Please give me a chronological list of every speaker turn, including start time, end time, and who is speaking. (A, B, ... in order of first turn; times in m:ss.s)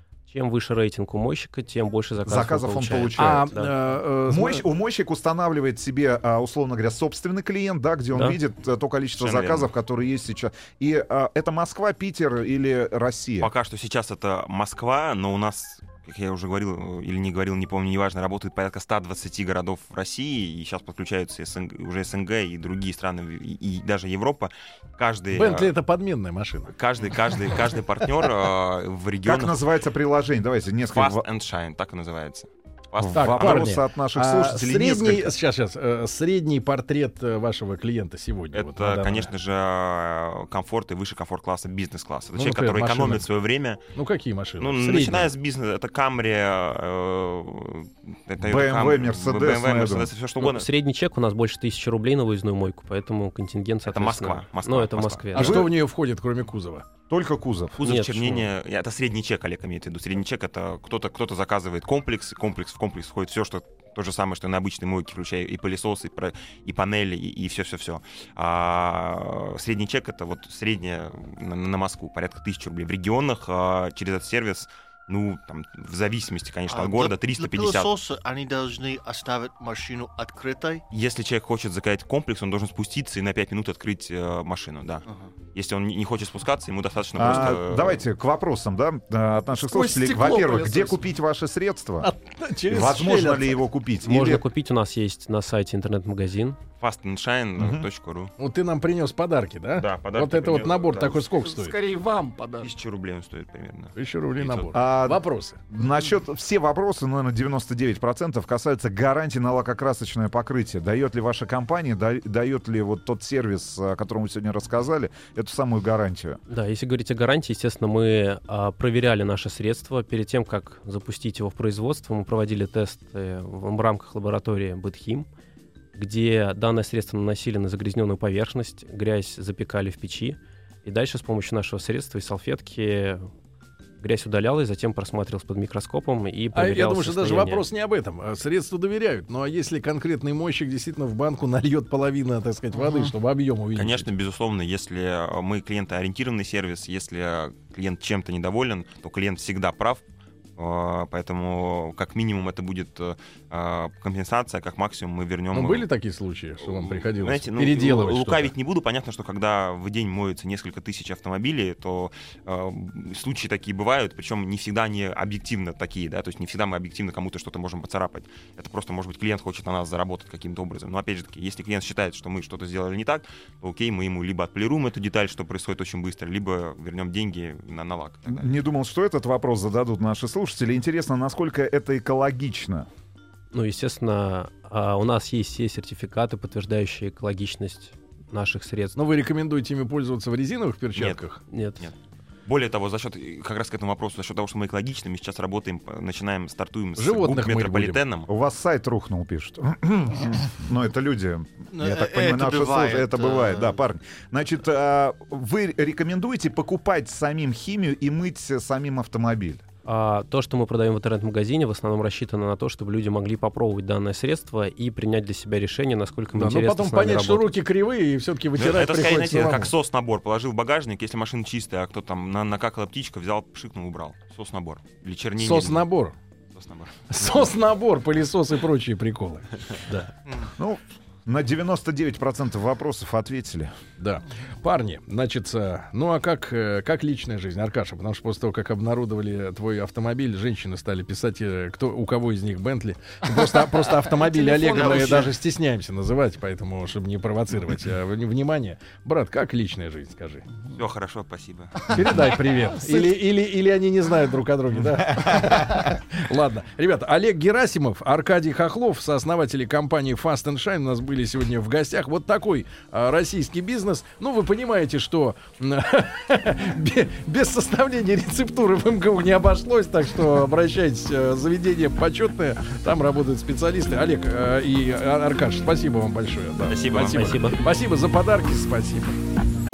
0:00.3-0:03.7 A
0:02.2-0:03.5 B
0:03.2-0:04.6 C
0:04.3-0:13.5 B
0:08.1-0:08.4 A
0:09.2-0:09.7 D
0:13.4-0:25.7 D
0:25.3-0:26.7 C
0:26.7-0:29.6 D
0:29.2-0:31.2 B
0:30.9-0:33.7 D
0:33.0-0:35.4 B
0:33.2-0:39.3 C
0:38.5-0:43.9 D
0:42.4-0:43.2 C
0:44.0-0:45.3 C
0:44.6-0:50.7 D
0:48.4-0:50.1 B
0:50.4-0:55.7 A
0:53.9-0:55.3 D
0:55.4-0:56.8 C
0:55.4-0:55.7 B
0:57.1-0:57.8 B
0:57.8-1:17.9 D
0:57.8-0:58.5 A
1:16.7-1:20.8 E
1:20.9-1:28.0 D
1:27.2-1:32.1 B
1:29.6-1:31.0 F
1:32.0-1:33.6 C
1:32.7-1:34.4 B
1:34.0-1:36.6 A
1:36.8-1:38.3 D
1:37.6-1:37.8 B
1:38.4-1:41.8 C
1:39.8-1:41.2 D
1:41.2-1:42.7 F
1:42.6-1:44.7 D
1:44.0-1:45.6 C
1:44.7-1:56.4 B
1:56.5-2:05.3 A
2:06.0-2:13.3 A
2:14.0-2:17.6 A
2:16.5-2:24.0 C
2:23.8-2:30.0 D
2:30.6-2:35.9 D
2:35.5-2:38.5 C
2:36.6-2:58.5 D
2:58.3-3:02.9 B
3:03.5-3:09.0 A
3:09.0-3:11.4 C
3:11.0-3:11.2 D
3:11.5-3:11.8 A
3:12.5-3:18.3 D
3:17.0-3:18.0 C
3:18.3-3:29.6 B
3:21.7-3:23.8 E
3:29.8-3:37.5 A
3:36.3-3:39.7 C
3:38.6-3:45.9 D
3:45.4-3:46.2 C
3:46.6-3:47.5 D
3:47.1-3:50.1 C
3:50.6-3:53.7 B
3:54.0-4:10.5 C
4:04.1-4:05.4 F
4:04.7-4:05.1 E
4:10.7-4:12.3 D
4:11.9-4:39.2 C
4:12.9-4:13.2 F
4:36.7-4:37.4 D
4:37.1-4:37.6 A